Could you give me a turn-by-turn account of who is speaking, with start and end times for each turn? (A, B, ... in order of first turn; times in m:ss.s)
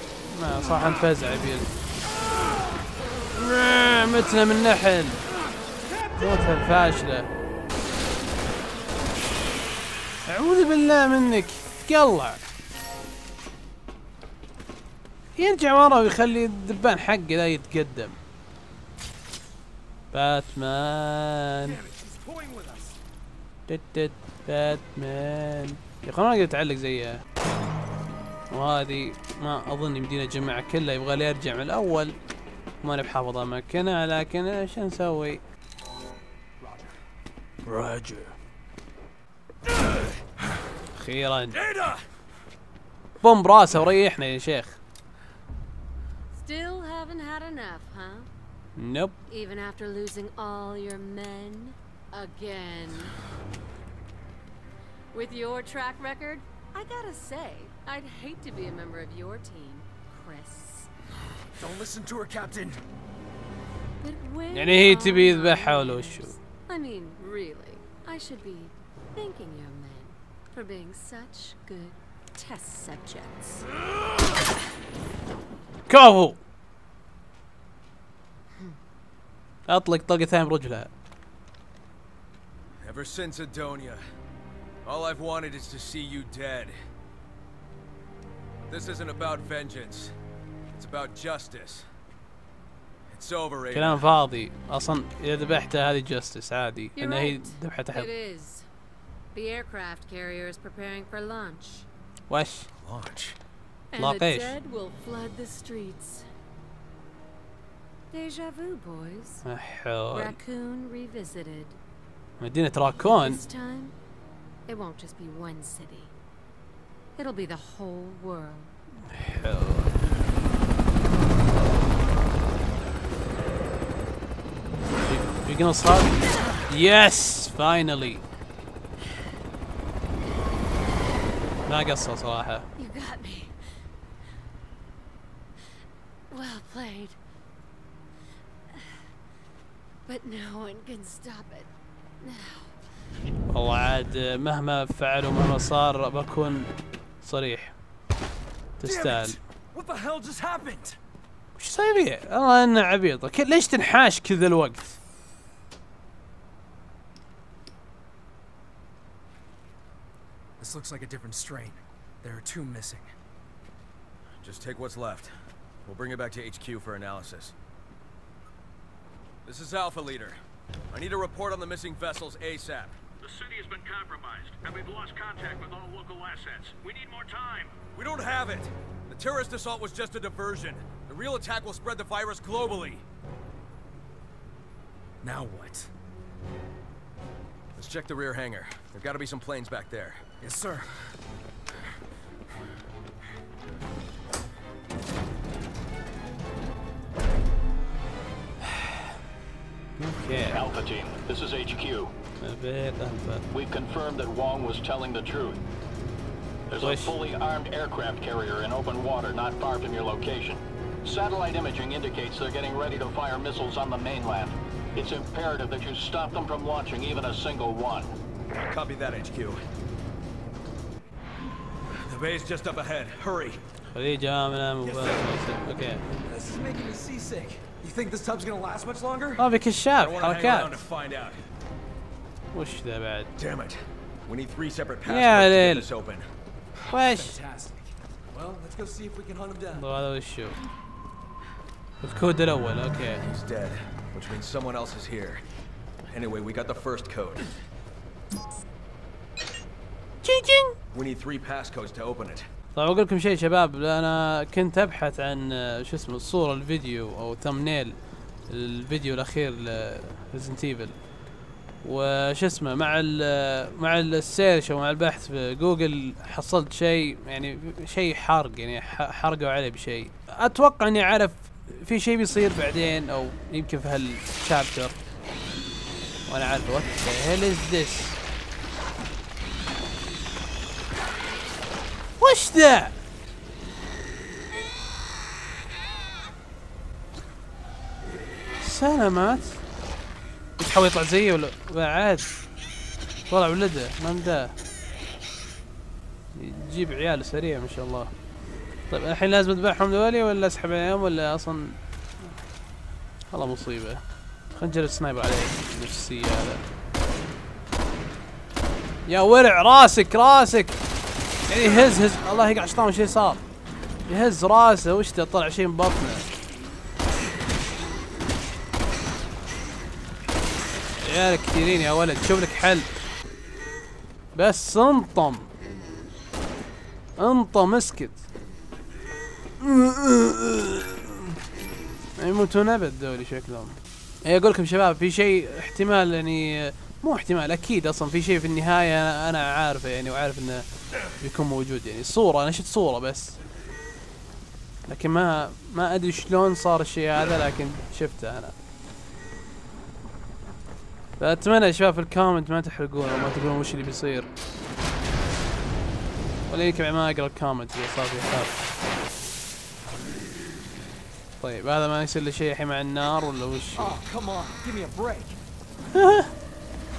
0:00.3-0:01.7 A
0:03.3-0:05.2 A
0:05.9-0:06.2 B
0:06.2-0:07.3 A
0:10.2-0:12.4 A
0:15.4-0:18.2 A
0:20.1-0:21.8 A
0:21.6-0:23.0 B
0:23.7-0:27.2 A
0:28.5-0:32.1 A
0:32.8-0:35.4 A
0:36.6-0:36.9 B
0:37.6-0:38.3 A
0:41.0-0:41.6 A
0:41.6-0:42.0 C
0:43.2-0:44.8 A
0:46.3-0:48.3 D
0:48.8-0:49.2 A
0:49.3-0:53.2 D
0:55.1-1:00.9 D
1:01.6-1:02.8 B
1:04.0-1:13.7 D
1:04.5-1:06.3 A
1:15.9-1:16.4 A
1:19.7-1:20.9 A
1:22.8-1:24.0 C
1:24.8-1:26.8 C
1:28.7-1:30.1 C
1:30.7-1:31.9 C
1:33.1-1:34.1 C
1:33.7-1:38.1 A
1:37.0-1:38.7 D
1:39.3-1:41.9 D
1:42.3-1:42.7 A
1:42.8-1:43.4 C
1:43.9-1:46.3 D
1:44.0-1:44.5 A
1:48.1-1:49.4 D
1:49.4-1:50.4 A
1:50.1-1:51.8 D
1:52.4-1:53.4 A
1:52.8-1:53.9 D
1:54.7-1:56.1 D
1:57.2-1:58.7 D
1:59.1-1:59.9 A
2:05.0-2:08.2 A
2:11.6-2:12.6 A
2:12.8-2:13.5 D
2:16.3-2:17.2 D
2:20.0-2:22.7 D
2:23.5-2:26.7 A
2:27.2-2:27.7 A
2:28.8-2:29.4 A
2:28.8-2:31.0 B
2:31.6-2:35.0 A
2:40.6-2:43.1 B
2:44.4-2:45.3 C
2:45.8-2:47.5 C
2:49.4-2:50.4 C
2:50.9-2:53.0 C
2:53.2-2:57.8 E
2:57.9-3:03.0 C
3:05.2-3:05.9 B
3:07.7-3:10.3 C
3:10.4-3:10.9 B
3:18.6-3:19.0 A
3:20.0-3:20.6 A
3:20.4-3:22.1 E
3:22.4-3:23.4 A
3:23.5-3:25.6 E
3:26.7-3:38.1 E
3:26.8-3:27.1 A
3:38.5-3:39.6 C
3:41.9-3:43.6 C
3:43.9-3:46.0 A
3:44.8-3:45.2 B
3:46.2-3:49.5 B
3:49.4-3:50.8 A
3:50.0-3:51.4 C
3:52.5-3:53.3 A
3:53.4-3:56.3 C
3:55.0-3:55.9 A
3:56.9-3:57.4 A
3:57.0-3:59.9 B
3:59.7-4:00.6 A
4:02.0-4:03.2 A
4:03.3-4:05.4 C
4:06.1-4:07.5 C
4:10.2-4:10.8 A
4:10.9-4:12.5 C
4:12.7-4:18.0 A
4:18.5-4:21.0 A
4:21.8-4:35.0 A
4:36.3-4:38.2 A
4:42.2-4:42.9 A
4:48.6-4:49.6 A
4:50.6-4:52.3 A
4:53.3-4:54.5 A
4:56.3-4:58.1 A
4:58.9-5:01.8 A
5:03.3-5:04.0 A
5:04.5-5:06.6 A
5:09.1-5:10.8 A
5:11.5-5:13.4 A
5:14.1-5:16.2 A
5:21.0-5:22.9 A
5:24.3-5:25.5 A
5:27.2-5:28.2 A
5:29.6-5:31.3 A
5:32.2-5:40.6 A
5:41.2-5:43.4 A
5:44.9-5:48.5 A
5:51.2-5:54.3 A
5:56.5-5:58.5 A
6:01.4-6:03.9 A
6:03.7-6:05.4 B
6:05.9-6:06.3 A